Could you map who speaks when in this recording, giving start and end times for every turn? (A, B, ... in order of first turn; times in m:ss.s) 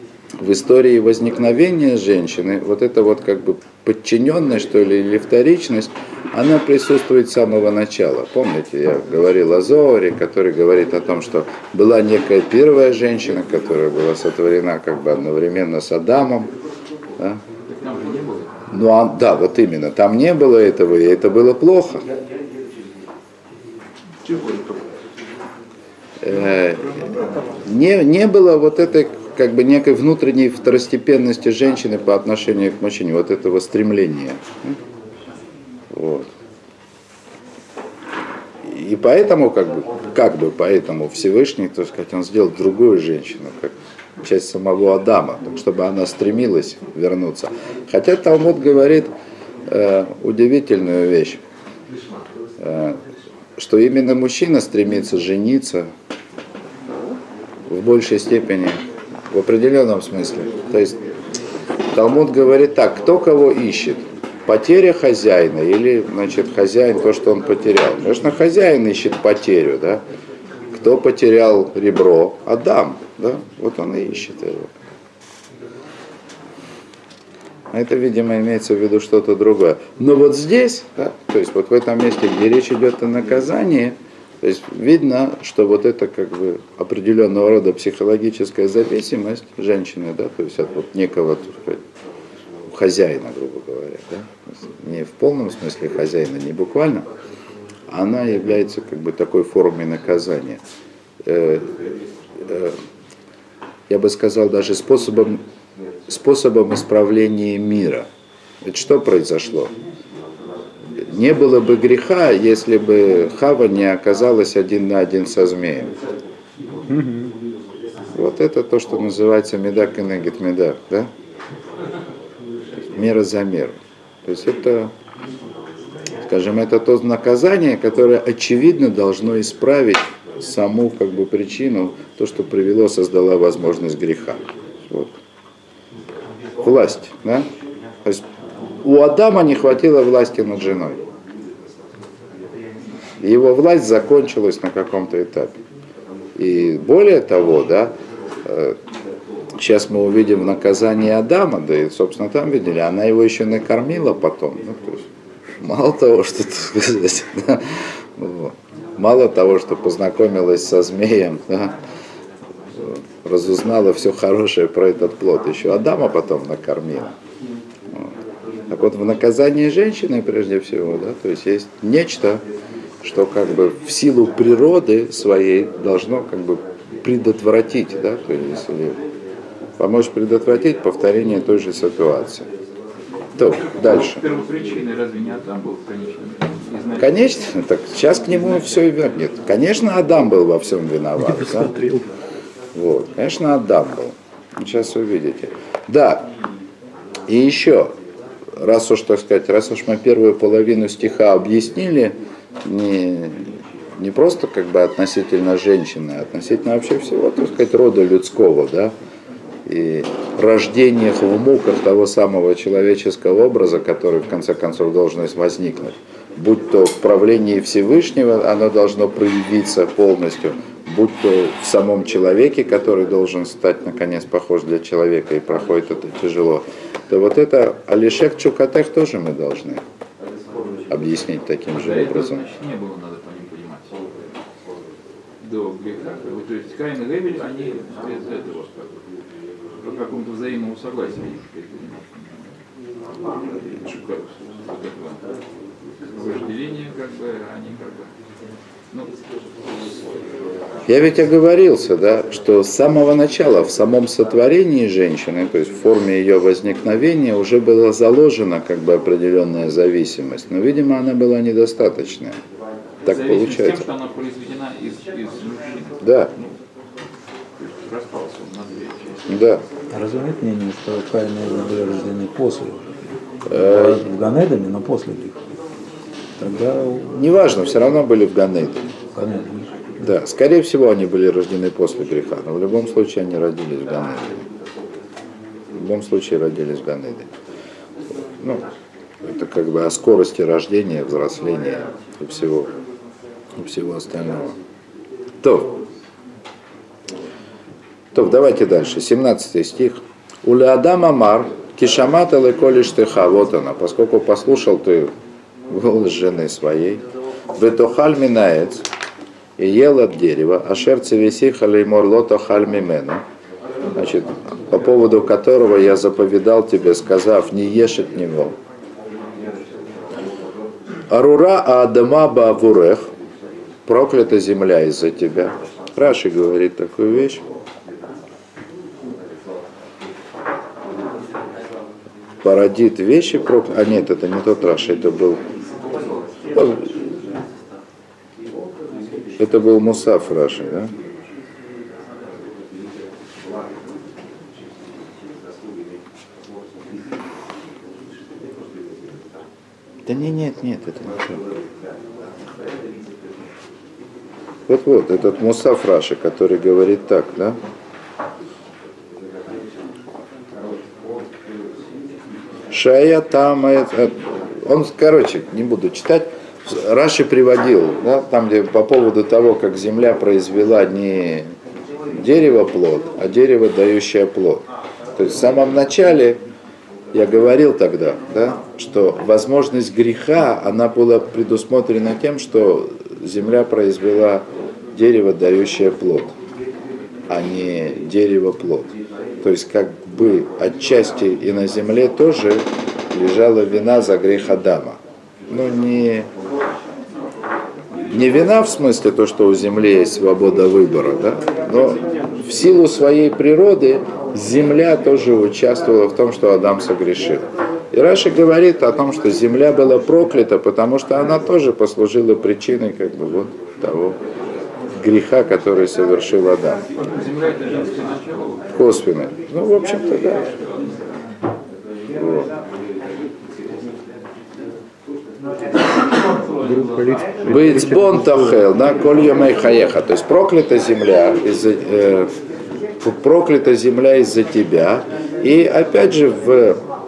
0:00.4-0:16.5 A
0:17.7-0:18.6 B
0:18.7-0:22.0 A
0:24.3-0:24.6 B
0:26.2-0:27.1 A
0:27.6-0:34.8 A
0:35.9-0:36.3 A
0:38.6-0:49.1 A
0:49.7-0:51.4 A
0:52.6-0:53.0 A
0:53.6-0:55.9 A
0:57.7-1:01.0 A
1:01.9-1:10.0 A
1:10.7-1:14.7 A
1:17.7-1:31.8 A
1:32.7-1:37.1 A
1:37.9-1:40.6 A
1:41.2-1:41.7 A
1:42.5-1:42.8 A
1:43.9-1:45.4 A
1:46.1-1:48.1 A
1:48.6-1:49.7 A
1:51.0-1:55.9 A
1:56.9-1:57.4 C
1:58.1-2:01.1 A
2:02.9-2:04.9 A
2:06.3-2:15.1 A
2:16.6-2:17.5 A
2:18.8-2:21.0 A
2:23.2-2:25.6 A
2:26.4-2:28.8 A
2:29.6-2:35.0 A
2:35.6-2:41.8 A
2:42.8-2:47.1 A
2:48.7-2:52.4 A
2:53.0-2:59.0 A
2:59.8-3:02.5 A
3:03.4-3:04.2 A
3:03.8-3:07.3 B
3:07.0-3:11.8 A
3:12.8-3:16.3 A
3:17.3-3:17.9 A
3:18.6-3:28.9 A
3:29.6-3:49.8 A
3:50.9-3:52.4 A
3:51.7-3:54.0 B
3:55.4-3:59.0 B
3:59.8-4:02.5 B
4:03.5-4:05.2 B
4:06.1-4:08.1 B
4:10.9-4:22.4 A
4:23.0-4:23.9 A
4:23.1-4:26.0 B
4:26.0-4:26.3 A
4:27.6-4:29.3 B
4:29.3-4:29.6 A
4:29.9-4:32.9 C
4:33.5-4:35.4 C
4:33.5-4:34.0 A
4:36.4-4:37.1 C
4:37.1-4:38.9 A
4:39.1-4:39.7 C
4:40.0-4:44.5 A
4:45.7-4:47.3 A
4:49.2-4:52.7 A
4:53.6-4:54.5 A
4:55.4-4:55.8 A
4:58.1-5:05.1 A
5:05.7-5:07.0 A
5:07.5-5:08.9 A
5:09.6-5:13.2 A
5:14.0-5:18.5 A
5:21.1-5:23.1 A
5:23.9-5:27.4 A
5:32.4-5:35.4 A
5:36.5-5:36.9 A
5:39.4-5:40.9 A
5:50.0-5:51.5 A
5:54.7-5:57.6 A
6:02.7-6:11.5 A
6:12.1-6:16.4 A
6:17.1-6:26.4 A
6:27.3-6:36.3 A
6:38.1-6:54.2 A
6:55.0-6:56.8 A
6:57.0-6:58.7 B
6:58.7-7:00.5 A
7:02.2-7:02.5 A
7:06.6-7:08.3 C
7:07.5-7:12.3 A
7:13.0-7:16.8 A